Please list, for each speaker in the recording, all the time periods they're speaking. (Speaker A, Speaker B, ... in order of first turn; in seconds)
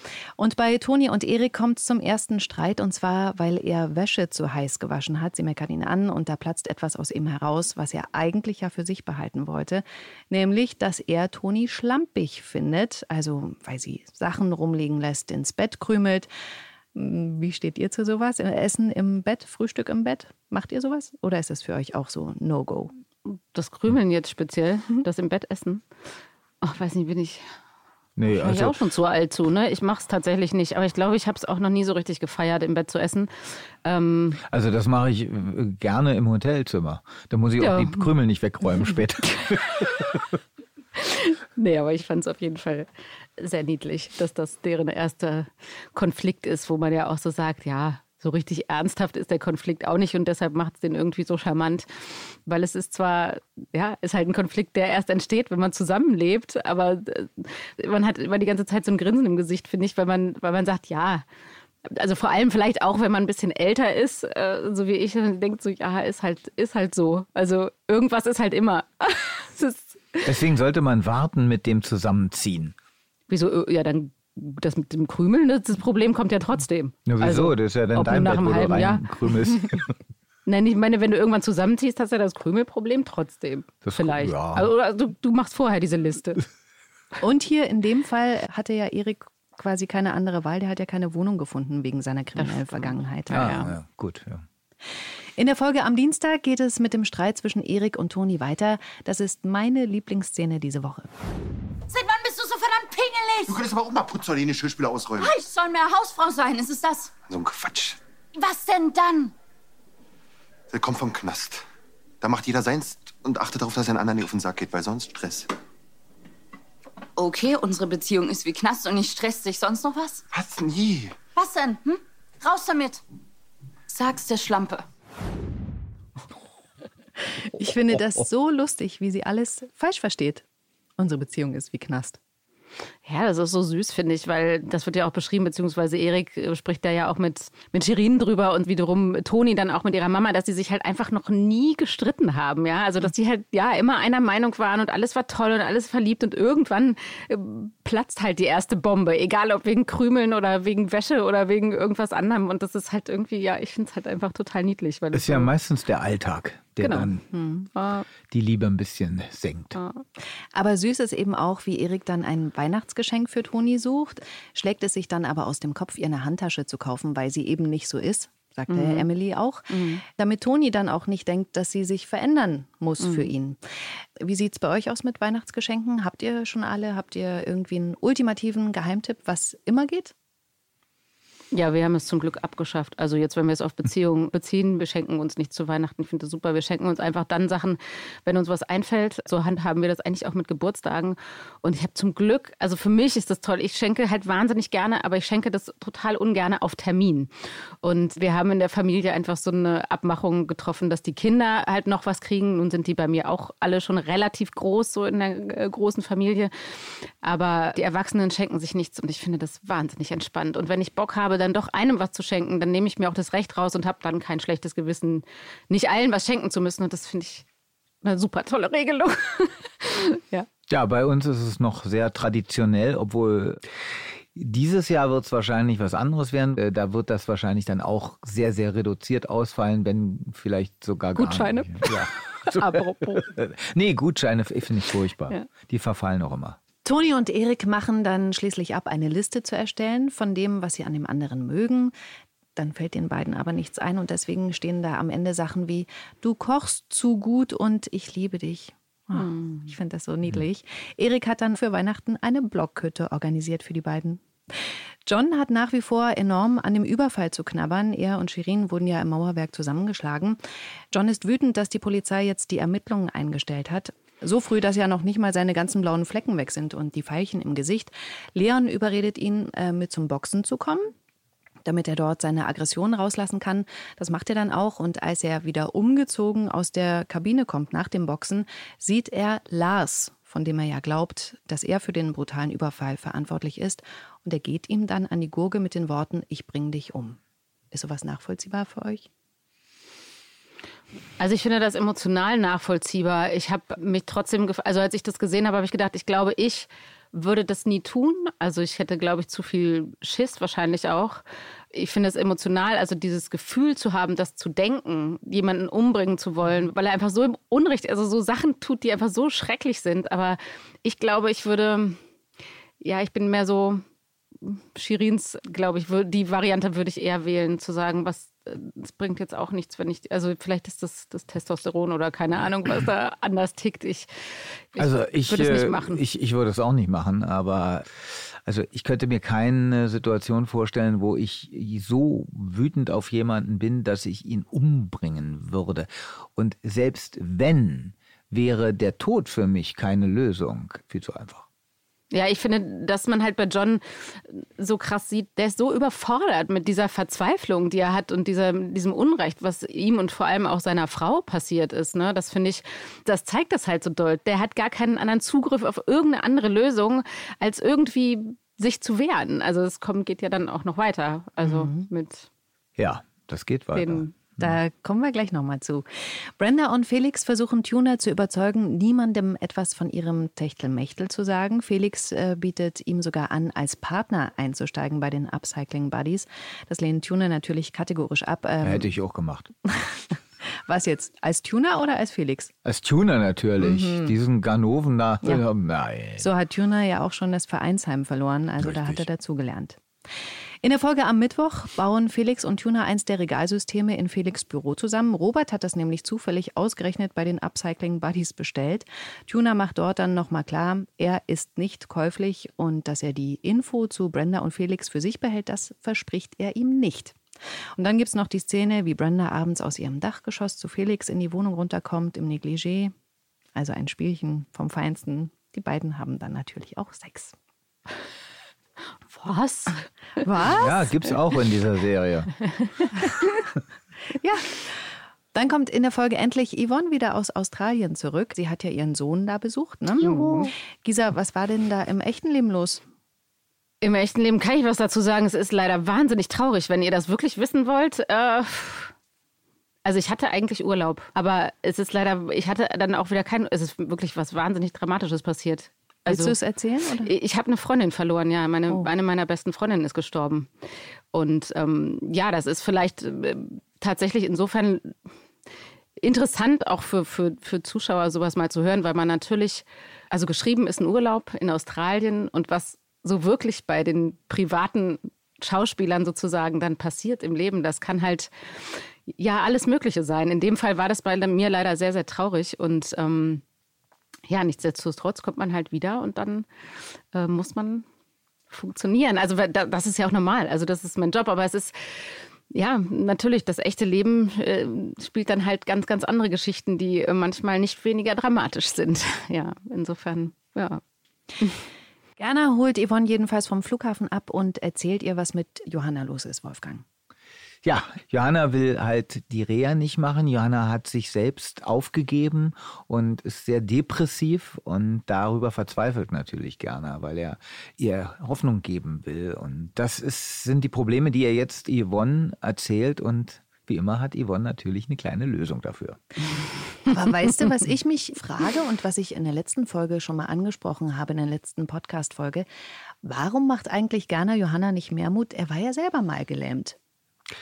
Speaker A: 0.4-16.3, 16.9-22.9, 87.2-93.7, 95.4-101.1, 127.5-130.4, 131.0-132.2, 157.3-157.7, 160.5-173.6, 174.2-180.1, 236.8-241.9, 242.6-254.2, 255.1-260.4, 260.9-270.9, 271.6-287.2, 287.7-289.1, 361.4-361.9, 364.4-378.9, 379.8-382.5, 383.6-384.1, 386.2-389.8, 390.6-407.2, 407.8-412.9, 413.5-417.3, 420.2-421.0, 423.0-423.4, 424.2-432.8, 446.1-447.1, 492.2-496.8, 516.9-522.5, 523.0-526.8
Speaker B: 23.2-25.8, 26.6-27.4, 28.2-33.3, 33.8-34.4, 37.6-38.1, 41.0-61.2, 61.8-70.3, 73.3-79.1, 80.5-86.4, 92.4-93.7, 133.0-155.5, 156.8-157.1, 157.7-158.1, 159.7-160.0, 168.7-169.1, 169.7-170.0, 173.0-173.3, 181.5-197.3, 197.8-217.4, 218.0-220.5, 231.1-233.3, 249.1-249.7, 291.2-301.2, 301.7-312.0, 312.8-313.8, 314.4-324.1, 324.7-326.0, 342.1-362.2, 363.7-364.1, 419.1-419.8, 430.0-430.5, 433.8-438.9, 439.8-446.4, 447.0-450.5, 451.1-454.9, 456.0-473.4, 474.3-476.5, 477.1-477.8, 478.5-490.8
Speaker C: 28.2-28.7, 34.5-40.2, 70.2-72.7, 77.0-79.9, 83.8-84.7, 93.3-94.4, 155.1-157.2, 158.3-159.8, 220.7-223.6, 224.2-236.6, 324.8-341.4, 362.8-364.6, 378.6-379.5, 382.6-386.3, 388.6-389.0, 420.4-422.3, 497.6-516.0
Speaker D: 101.9-103.6, 105.2-107.1, 108.3-109.3, 117.2-120.2, 121.3-123.0, 123.9-124.8
Speaker E: 103.5-105.3, 107.3-108.0, 110.7-111.6, 112.2-115.5, 120.3-121.2